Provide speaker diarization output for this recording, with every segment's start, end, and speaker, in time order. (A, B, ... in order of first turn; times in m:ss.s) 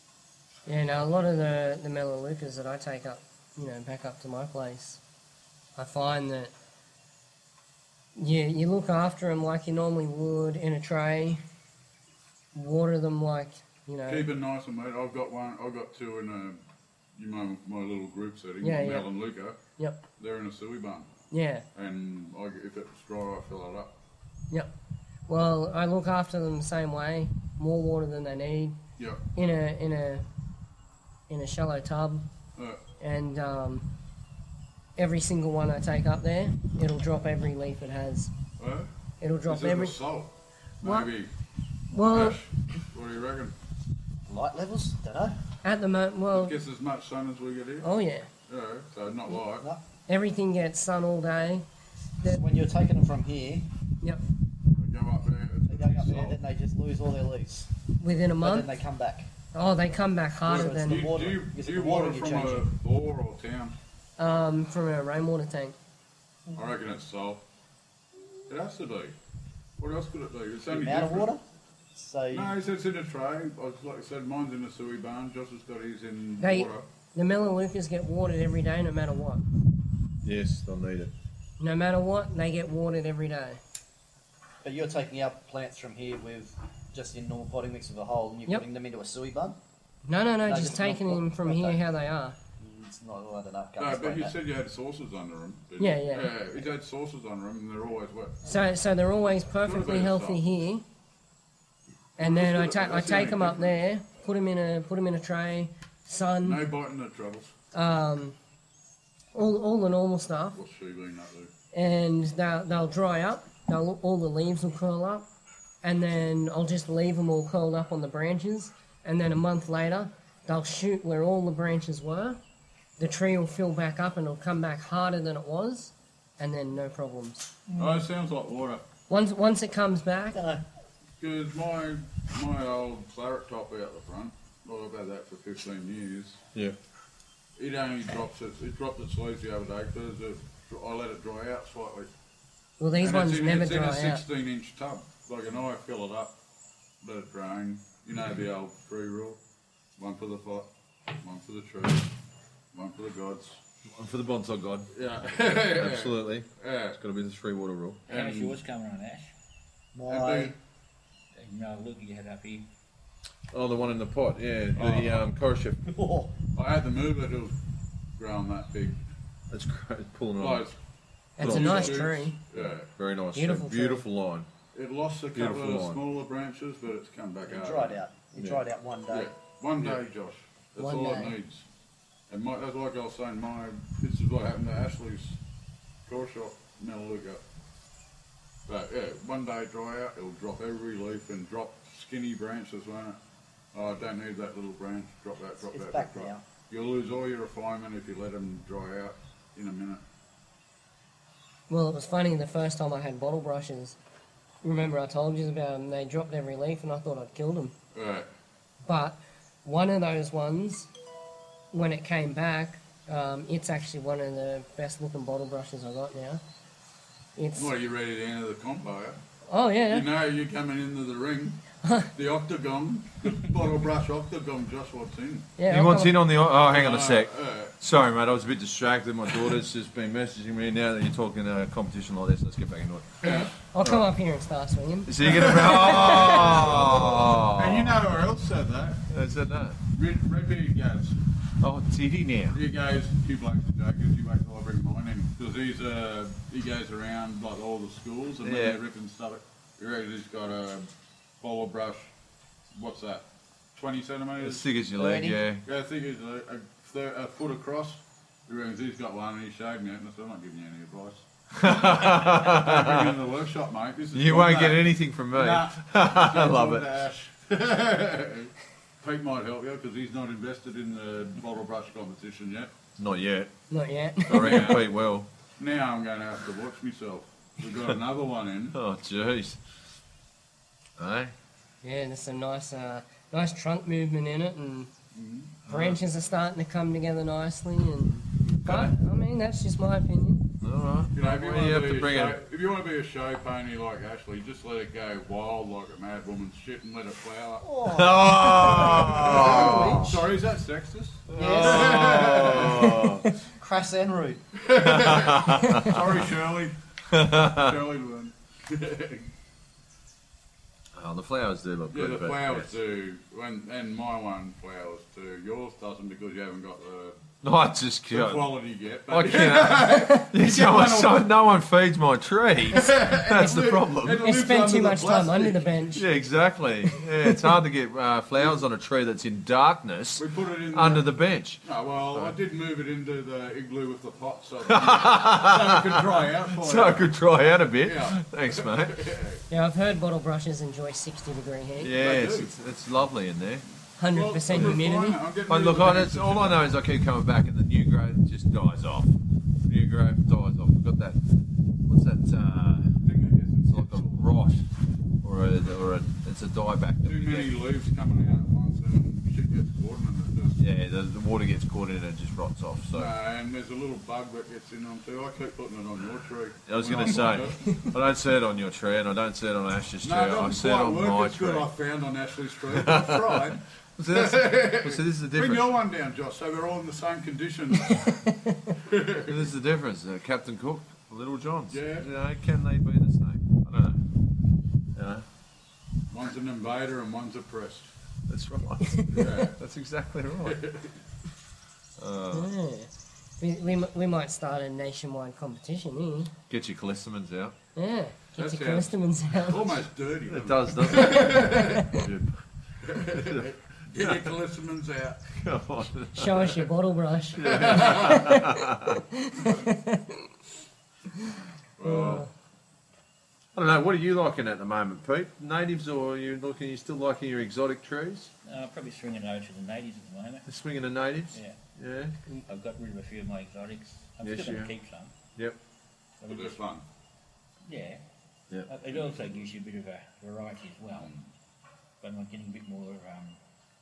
0:00.7-0:05.0 A
0:05.8-0:06.5 A
0:08.2-0:11.4 A
0:12.5-0:14.3 A
0:14.1-0:16.6 B
0:17.1-0:19.6 B
0:18.6-0:19.1 A
0:19.8-0:20.0 A
0:20.2-0:21.1 B
0:21.3-0:21.6 A
0:21.7-0:24.0 B
0:25.3-0:28.8 A
0:29.3-0:30.2 A
0:31.3-0:32.2 A
0:33.0-0:33.9 A
0:35.0-0:38.3 A
0:38.6-0:38.9 B
0:39.2-0:40.0 A
0:39.5-0:41.3 B
0:40.8-0:41.1 A
0:41.9-0:42.4 A
0:42.0-0:43.5 B
0:44.3-0:45.4 C
0:45.6-0:46.6 A
0:46.3-0:47.9 B
0:47.8-0:48.3 A
0:48.5-0:49.7 B
0:50.1-0:51.6 A
0:52.2-0:53.7 C
0:54.8-0:56.4 B
0:55.7-0:57.7 C
0:58.0-0:58.8 A
0:58.4-0:59.3 C
0:59.5-1:01.1 A
1:00.5-1:03.8 B
1:00.5-1:02.7 C
1:04.2-1:05.8 A
1:06.6-1:07.4 B
1:08.5-1:09.1 B
1:09.8-1:11.3 B
1:10.6-1:11.4 C
1:11.9-1:12.5 C
1:12.3-1:16.8 B
1:16.4-1:19.4 A
1:20.2-1:21.1 D
1:21.6-1:23.6 A
1:24.6-1:29.6 C
1:30.1-1:32.4 A
1:30.4-1:31.8 C
1:32.6-1:34.4 C
1:33.8-1:38.4 B
1:35.8-1:36.3 A
1:38.4-1:40.8 A
1:39.6-1:40.4 B
1:42.2-1:46.6 A
1:42.2-1:43.7 B
1:46.4-1:47.5 B
1:47.7-1:48.4 A
1:49.3-1:50.6 A
1:50.5-1:51.5 B
1:51.7-1:55.2 A
1:55.8-2:02.4 A
2:03.0-2:07.5 A
2:07.7-2:08.0 C
2:07.8-2:08.8 B
2:09.1-2:10.4 A
2:10.3-2:10.6 C
2:11.2-2:16.4 B
2:17.6-2:22.1 B
2:22.8-2:24.2 A
2:23.0-2:26.4 B
2:27.0-2:29.4 B
2:30.0-2:30.7 B
2:31.2-2:32.1 B
2:32.7-2:33.6 B
2:33.8-2:38.0 D
2:34.9-2:37.0 B
2:38.1-2:38.5 B
2:38.1-2:39.3 E
2:39.9-2:40.6 C
2:40.1-2:40.5 B
2:41.3-2:42.7 E
2:43.5-2:45.8 D
2:44.7-2:45.2 B
2:45.8-2:46.3 C
2:46.5-2:47.6 B
2:48.2-2:49.0 B
2:49.5-2:50.6 D
2:50.4-2:50.8 B
2:51.4-2:52.4 A
2:51.4-2:52.9 B
2:51.4-2:54.5 D
2:53.3-2:54.0 A
2:54.7-2:58.0 B
2:55.3-2:56.0 D
2:57.4-2:59.3 C
2:58.4-2:58.6 D
2:59.1-3:01.6 B
3:00.8-3:01.3 A
3:02.3-3:05.4 B
3:06.0-3:07.4 B
3:08.6-3:13.2 B
3:13.7-3:20.0 B
3:15.6-3:16.4 C
3:21.7-3:24.0 A
3:24.6-3:27.7 A
3:27.9-3:28.3 B
3:28.8-3:30.9 A
3:31.7-3:36.4 A
3:37.4-3:37.7 A
3:37.5-3:39.2 B
3:39.5-3:40.1 A
3:39.9-3:45.5 B
3:41.8-3:42.1 A
3:45.6-3:46.2 A
3:45.7-3:54.0 D
3:46.6-3:47.7 B
3:53.2-3:56.6 A
3:53.2-3:53.5 B
3:55.0-3:58.0 D
3:55.2-3:59.0 B
3:59.1-3:59.8 D
3:59.9-4:01.2 B
4:01.6-4:02.6 D
4:02.5-4:10.9 B
4:08.4-4:08.8 D
4:11.4-4:12.1 B
4:12.7-4:14.6 B
4:14.4-4:15.6 D
4:15.0-4:15.4 C
4:15.6-4:32.7 B
4:21.5-4:23.2 D
4:24.1-4:26.8 D
4:33.0-4:33.5 D
4:33.7-4:34.8 A
4:34.2-4:35.3 D
4:34.3-4:34.8 B
4:35.6-4:38.8 B
4:38.7-4:39.6 D
4:41.0-4:41.3 D
4:41.8-4:44.9 A
4:45.1-4:45.9 B
4:45.7-4:50.5 A
4:48.2-4:48.9 D
4:50.6-4:52.4 D
4:51.1-4:57.7 B
4:57.6-5:00.3 C
4:57.8-5:00.2 D
4:58.5-5:03.0 B
5:01.3-5:03.3 D
5:01.3-5:04.4 C
5:04.5-5:09.3 B
5:04.8-5:06.2 D
5:07.1-5:07.8 D
5:10.9-5:12.8 D
5:11.9-5:17.2 B
5:17.4-5:18.5 D
5:18.1-5:21.2 B
5:19.1-5:24.3 D
5:22.6-5:25.7 B
5:24.1-5:26.0 A
5:25.9-5:32.3 D
5:27.2-5:27.5 A
5:30.2-5:31.1 B
5:31.6-5:37.1 B
5:34.7-5:39.1 D
5:37.8-5:39.4 B
5:39.5-5:41.9 A
5:41.8-5:43.6 D
5:41.9-5:42.5 B
5:44.0-5:45.2 A
5:44.1-5:46.7 B
5:44.5-5:44.8 D
5:45.5-5:51.2 D
5:51.9-5:52.9 D
5:53.0-5:54.2 B
5:53.7-5:54.6 D
5:55.2-5:57.5 D
5:57.0-6:00.6 B
6:00.6-6:03.1 D
6:02.9-6:07.8 B
6:06.6-6:11.7 D
6:10.0-6:19.4 B
6:12.7-6:15.7 D
6:17.9-6:18.7 A
6:19.3-6:24.0 D
6:21.7-6:22.1 B
6:25.0-6:25.2 D
6:26.1-6:27.9 B
6:28.3-6:30.6 D
6:28.9-6:29.2 A
6:29.1-6:29.6 B
6:30.4-6:30.9 B
6:32.0-6:32.5 D
6:32.3-6:36.3 A
6:36.5-6:37.5 D
6:37.7-6:39.8 A
6:38.4-6:42.0 B
6:40.3-6:44.3 D
6:41.4-6:41.8 A
6:42.8-6:45.3 B
6:45.3-6:46.7 D
6:46.1-6:50.3 A
6:47.3-6:49.0 D
6:47.4-6:48.4 B
6:51.8-6:52.3 B
6:51.8-6:52.3 A
6:53.5-6:58.3 D
6:58.4-7:00.5 E
7:00.5-7:02.1 D
7:01.3-7:01.6 E
7:02.4-7:05.1 E
7:04.2-7:04.7 D
7:06.2-7:06.6 E
7:06.3-7:06.8 B
7:07.6-7:08.0 E
7:08.6-7:11.1 E
7:08.9-7:09.4 B
7:11.0-7:11.3 B
7:12.0-7:13.4 E